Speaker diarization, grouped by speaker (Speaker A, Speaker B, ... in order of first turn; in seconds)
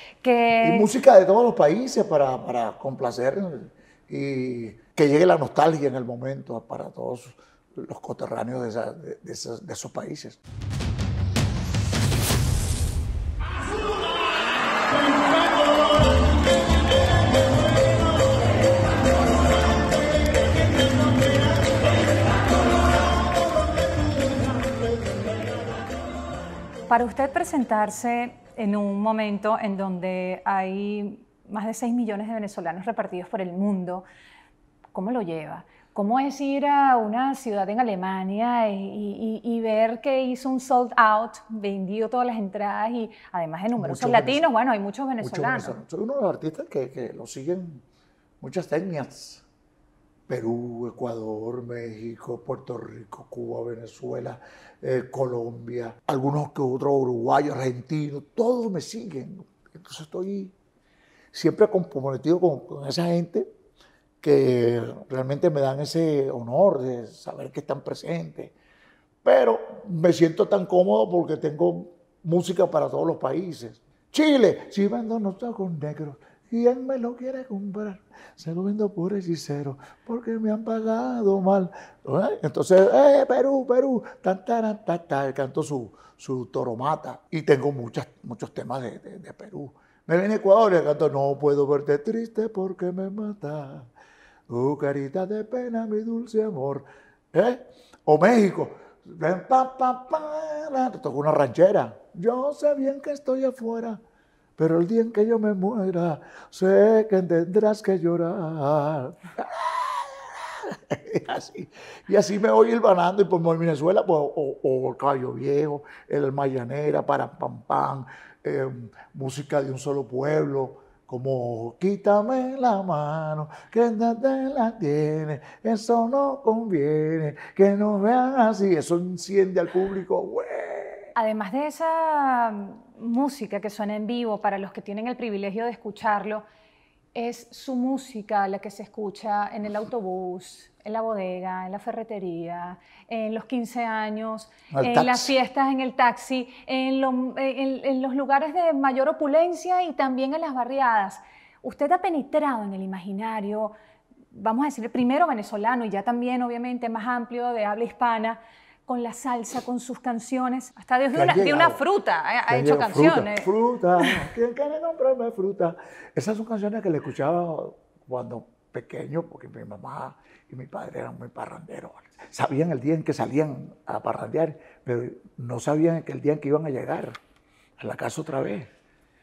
Speaker A: 0.2-0.9, 26.9-34.0, 34.9-45.7, 131.2-136.4, 137.1-153.7, 154.3-163.5
Speaker B: 0.6-10.4, 43.8-44.4, 45.2-47.8, 48.4-49.4, 50.3-60.5, 61.3-63.5, 64.2-68.5, 69.2-93.9, 94.5-104.0, 104.6-131.1, 144.7-145.3, 161.1-161.8, 162.5-177.1, 177.8-178.7